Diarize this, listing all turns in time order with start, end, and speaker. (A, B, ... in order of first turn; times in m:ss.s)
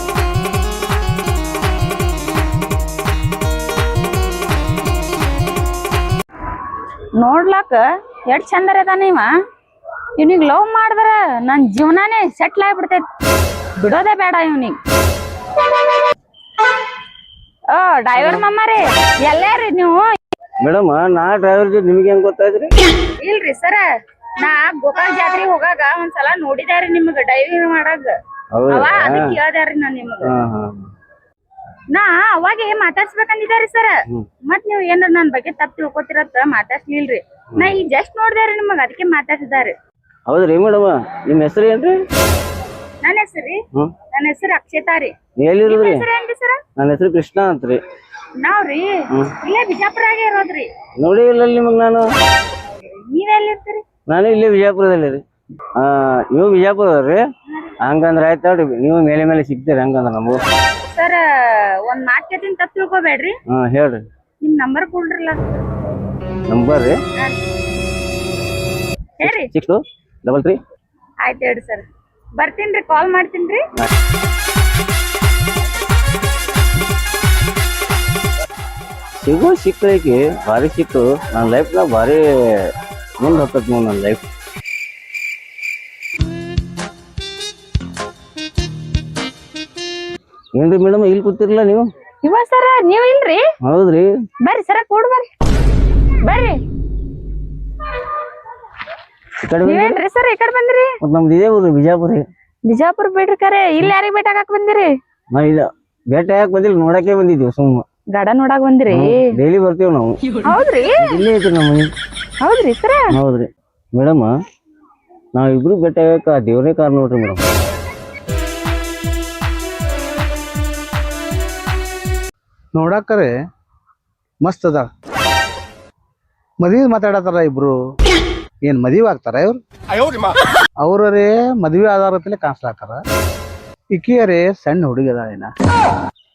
0:07.2-0:09.3 A
0:10.2-0:13.0 A
0:13.8-0:14.8 A
0:17.7-0:20.0 A
0:20.6-0:22.7 B
0:23.2-0:23.9 A
0:24.4-0:28.1 A
0:28.5-0:29.4 B
0:28.7-0:30.3 A
0:30.3-0:30.7 B
0:31.9-0:33.9 A
0:34.5-0:39.7 A
0:40.3-0:42.0 B
0:43.0-0:43.6 A
0:44.1-0:45.1 A
0:45.4-0:46.0 B
0:45.7-0:46.6 A
0:46.8-0:47.8 B
0:48.4-0:50.7 A
0:51.0-0:52.0 B
0:53.0-0:53.8 A
0:54.1-0:55.2 B
0:55.8-0:57.2 B
0:57.8-1:00.4 B
1:00.9-1:03.4 A
1:03.5-1:04.0 B
1:04.4-1:05.4 A
1:06.5-1:07.0 B
1:09.2-1:09.5 A
1:09.2-1:10.6 B
1:11.2-1:11.8 A
1:12.4-1:13.6 A
1:19.2-1:22.2 B
1:23.2-1:24.2 B
1:30.6-1:31.9 B
1:32.2-1:33.4 A
1:33.6-1:34.1 B
1:34.4-1:35.3 A
1:36.2-1:36.6 A
1:39.4-1:40.0 B
1:39.6-1:40.9 A
1:41.0-1:42.2 B
1:42.7-1:44.9 A
1:45.3-1:47.8 B
1:48.1-1:49.1 A
1:48.9-1:50.1 B
1:50.5-1:51.2 A
1:51.0-1:51.9 B
1:52.4-1:53.0 A
1:53.1-1:54.3 B
1:55.4-1:57.4 B
2:02.8-2:03.3 C
2:04.4-2:04.9 C
2:06.6-2:07.8 C
2:08.7-2:09.6 C
2:10.8-2:13.0 C
2:13.9-2:15.5 C